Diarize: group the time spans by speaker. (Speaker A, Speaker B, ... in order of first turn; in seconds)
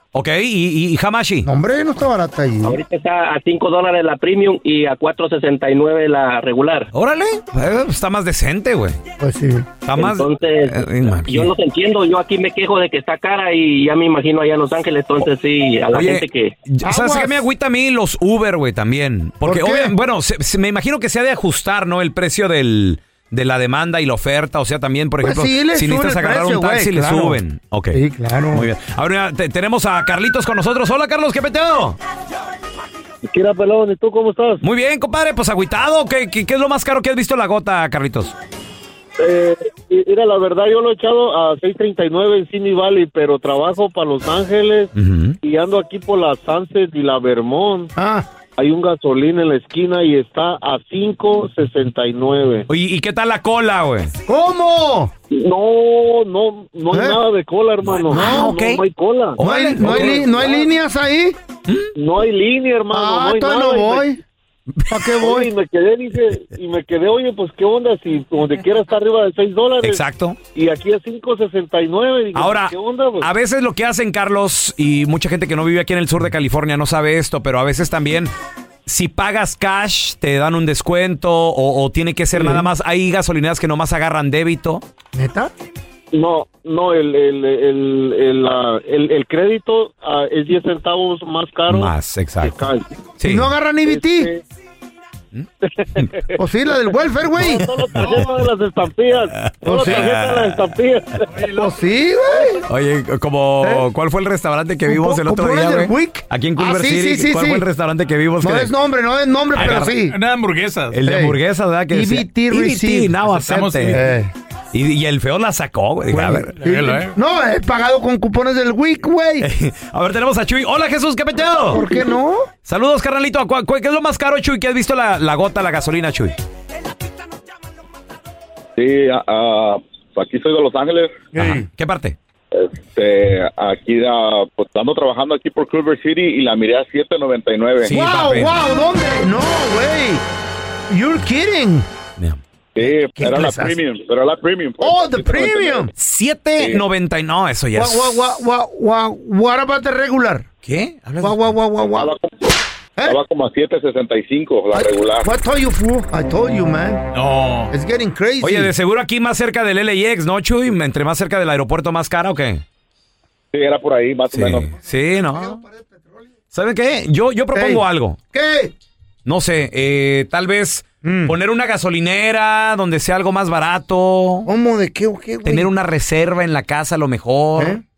Speaker A: 0.1-1.5, 6.9-9.0, 9.9-11.5, 15.9-28.0, 28.5-32.0, 34.6-38.4, 45.0-45.4, 52.7-54.1, 58.1-58.8, 59.4-60.2, 69.8-70.4, 72.3-78.3, 78.9-84.8, 91.7-92.6, 93.2-93.5, 95.3-96.1, 99.4-100.6, 102.7-108.7, 109.5-110.1, 110.9-114.0, 114.7-116.9, 119.4-121.9, 122.7-126.3, 131.4-132.2, 137.9-138.6, 146.0-148.3, 150.6-151.4, 157.2-157.7, 158.4-162.6, 164.3-165.6, 166.5-168.2, 169.3-174.5, 175.4-177.8
Speaker B: 1.4-2.8, 9.2-9.7, 16.8-17.5, 19.4-19.9, 25.2-27.4, 27.9-28.7, 48.0-48.3, 54.3-55.1, 56.9-57.2, 58.1-58.5, 59.4-61.4, 62.9-64.2, 64.9-65.5, 82.4-82.6, 85.2-85.5, 93.2-94.3, 96.4-97.7, 99.6-100.1, 101.5-102.7, 104.9-107.7, 108.4-110.2, 111.0-111.4, 111.9-114.3, 116.1-119.5, 121.7-122.5, 131.3-131.7, 137.9-140.2, 140.9-141.9, 142.8-143.8, 144.8-145.9, 147.8-150.5, 151.2-152.1, 154.7-157.1, 157.7-158.7, 164.9-166.3, 167.5-168.7, 171.0-171.3, 174.4-175.7, 177.6-177.8
Speaker C: 2.6-6.9, 10.0-16.6
Speaker D: 33.3-34.6, 39.2-44.9, 45.4-47.9, 48.6-52.7, 55.3-60.7, 62.0-64.2, 65.2-70.0, 70.5-73.3, 86.1-92.9, 93.9-94.4, 95.6-96.3, 97.3-101.5
Speaker E: 128.8-131.2, 132.5-137.9, 142.8-145.9, 151.9-152.5, 153.0-155.3, 163.5-164.7